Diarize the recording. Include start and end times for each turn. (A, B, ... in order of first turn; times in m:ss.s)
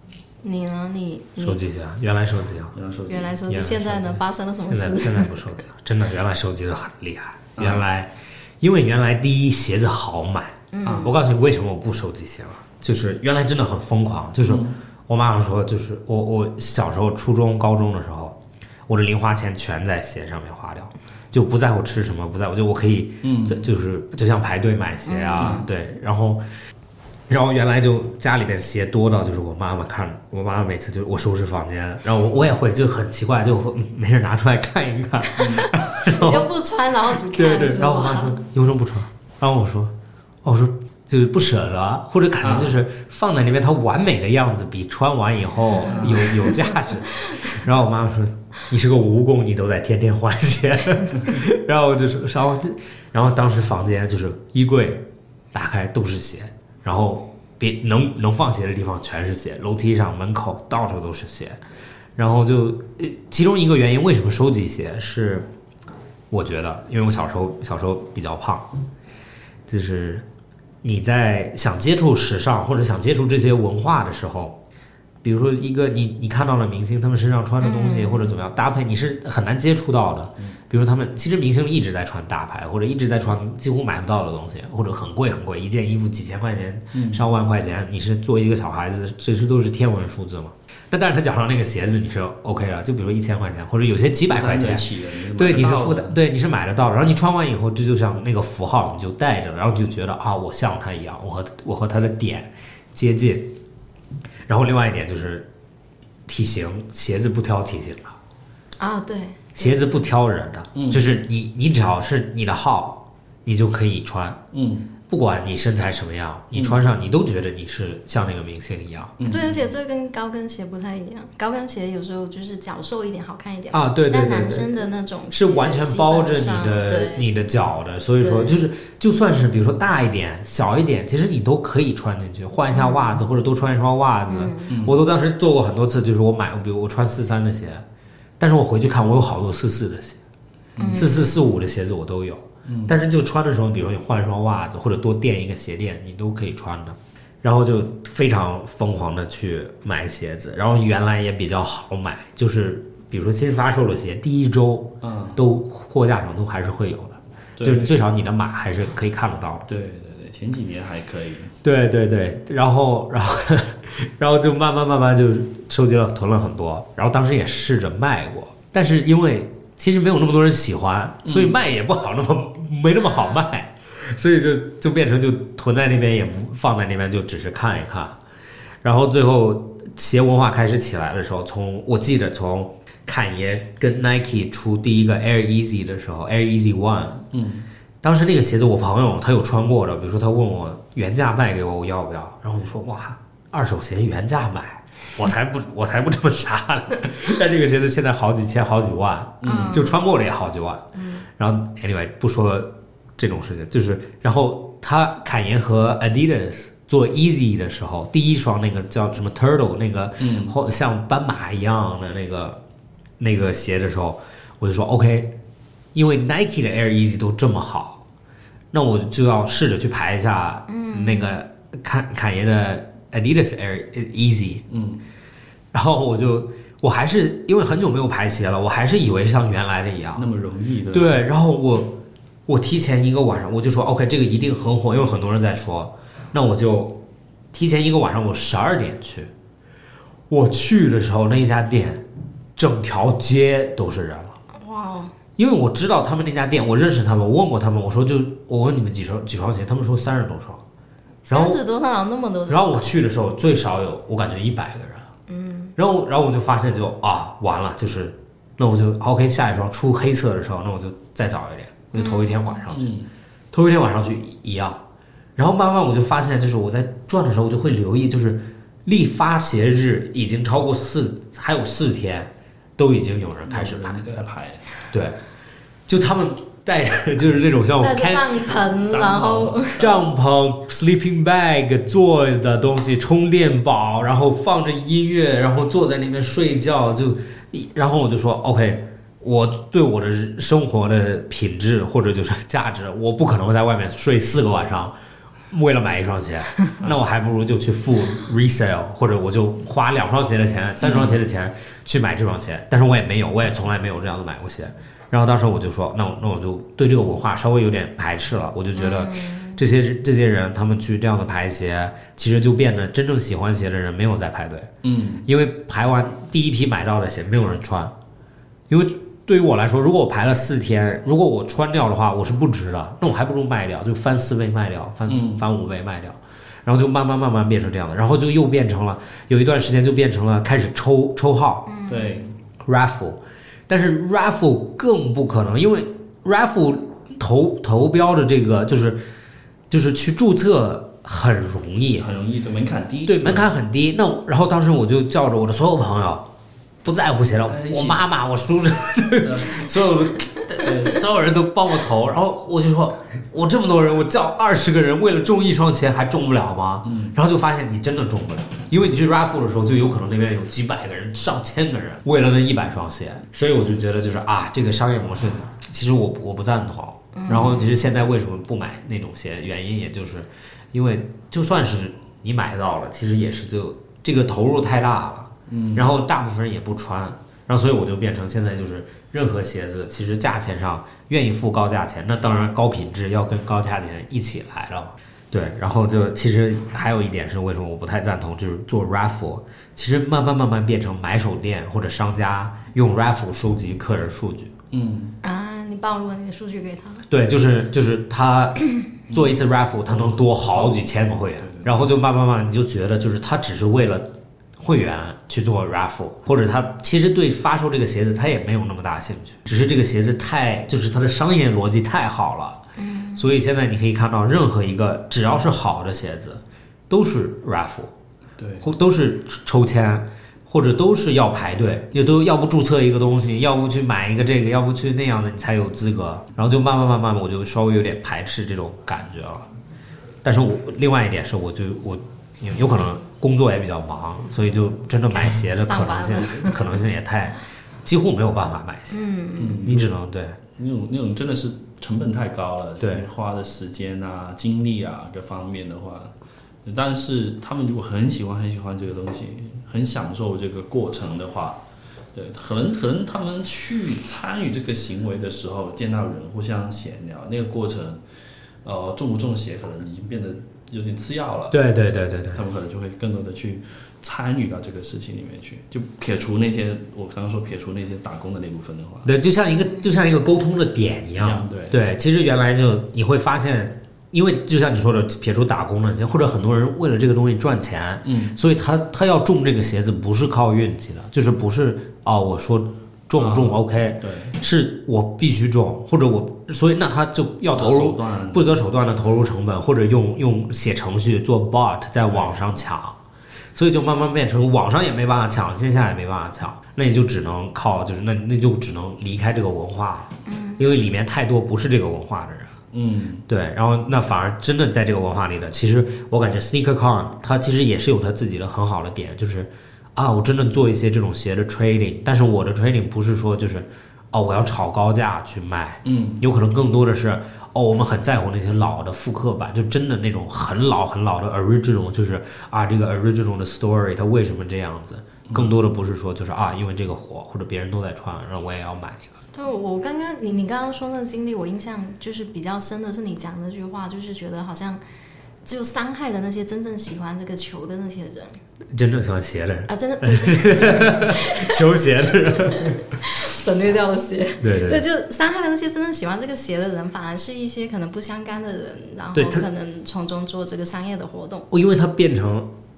0:00.4-0:01.6 A
0:01.4-0:02.8 B
0:02.7-0:03.4 C
0:03.1-0:05.5 A
0:03.5-0:26.4 B
0:07.6-0:07.8 C
0:10.7-0:11.1 A
0:10.8-0:11.1 C
0:14.4-0:14.8 C
0:23.2-0:23.7 C
0:25.0-0:25.7 A
0:25.4-0:25.6 C
0:27.3-0:36.5 B
0:35.4-0:35.6 C
0:35.5-0:38.4 A
0:37.2-0:39.9 B
0:40.4-1:01.6 B
0:42.4-0:42.8 C
0:45.8-0:46.1 A
0:45.9-0:46.5 C
0:46.6-0:47.6 A
1:02.2-1:05.5 B
1:06.3-1:08.7 B
1:09.7-1:10.2 B
1:10.8-1:14.6 B
1:15.2-1:43.5 B
1:17.6-1:18.2 A
1:26.9-1:27.2 C
1:34.3-1:36.2 C
1:44.5-1:45.5 B
1:46.3-1:48.2 B
1:48.8-1:50.0 A
1:49.6-1:54.4 B
1:50.7-1:51.1 C
1:54.5-1:54.9 C
1:55.1-1:59.2 B
1:56.5-1:56.8 C
1:59.2-1:59.7 C
1:59.2-2:07.3 A
2:03.7-2:04.7 B
2:05.3-2:17.8 B
2:08.2-2:08.6 A
2:12.7-2:13.2 A
2:14.3-2:14.7 A
2:14.7-2:15.0 C
2:18.4-2:20.2 B
2:20.8-2:21.2 C
2:20.8-2:21.4 A
2:20.9-2:39.6 B
2:22.6-2:23.0 C
2:35.0-2:35.4 C
2:37.6-2:38.0 C
2:39.7-2:41.5 C
2:41.6-2:58.2 B
2:51.2-2:51.6 C
2:53.2-2:53.5 A
2:58.8-3:07.3 B
3:07.3-3:07.7 C
3:08.0-3:32.6 B
3:19.4-3:19.8 C
3:19.4-3:20.0 A
3:20.9-3:21.2 A
3:30.2-3:30.6 C
3:33.2-3:35.3 B
3:35.9-3:38.0 B
3:38.7-3:44.6 B
3:40.7-3:41.4 A
3:44.7-3:45.0 C
3:45.7-3:50.3 B
3:50.2-3:51.2 C
3:50.9-3:59.3 B
4:00.3-4:02.0 B
4:02.6-4:04.4 B
4:04.5-4:05.1 A
4:05.4-4:10.6 B
4:11.2-4:12.8 A
4:11.3-4:11.6 B
4:12.5-4:15.1 B
4:15.3-4:15.7 A
4:15.8-4:22.9 B
4:21.9-4:22.6 A
4:22.7-4:23.1 C
4:23.5-4:24.8 B
4:25.4-4:34.2 B
4:33.4-4:34.8 C
4:34.9-4:35.2 B
4:35.9-4:38.4 B
4:37.8-4:39.8 A
4:38.9-4:40.0 C
4:39.7-4:55.0 B
4:55.5-5:14.7 B
5:00.8-5:01.2 C
5:08.7-5:09.6 A
5:14.8-5:15.2 C
5:15.2-5:17.9 B
5:18.7-5:31.7 B
5:25.1-5:25.4 C
5:31.7-5:32.2 A
5:31.9-5:32.3 C
5:32.6-5:39.0 B
5:39.7-5:42.1 B
5:42.0-5:43.5 C
5:43.0-5:46.3 B
5:46.8-6:34.5 B
5:47.4-5:48.0 C
5:49.2-5:49.9 C
5:50.6-5:51.0 C
5:56.8-5:57.2 C
6:07.1-6:07.8 A
6:15.5-6:15.9 C
6:34.7-6:35.2 C
6:35.2-6:37.0 A
6:37.1-6:52.6 B
6:39.1-6:39.4 C
6:40.5-6:41.9 C
6:52.8-6:53.4 A
6:53.2-6:57.9 B
6:58.4-6:58.7 C
6:58.6-7:09.5 B
7:10.2-7:19.0 B
7:15.1-7:16.6 A
7:18.9-7:19.6 A
7:19.4-7:19.9 C
7:19.6-7:20.4 B
7:20.6-7:26.1 C
7:22.8-7:23.1 B
7:26.6-7:31.6 C
7:32.1-7:38.0 C
7:38.6-7:41.6 C
7:41.5-7:42.4 B
7:42.3-7:49.1 C
7:49.0-8:13.0 B
7:51.2-7:51.8 C
7:58.0-7:58.4 C
8:03.2-8:04.4 C
8:07.5-8:08.6 C
8:12.0-8:12.4 C
8:13.5-8:22.6 B
8:20.2-8:20.6 A
8:22.7-8:23.2 C
8:23.3-8:49.1 B
8:35.8-8:36.2 C
8:45.3-8:45.6 C
8:49.3-8:54.8 A
8:55.4-8:58.4 A
8:58.7-9:03.0 B
8:59.7-9:11.5 A
9:04.4-9:04.8 B
9:09.1-9:09.4 B
9:11.5-9:12.5 B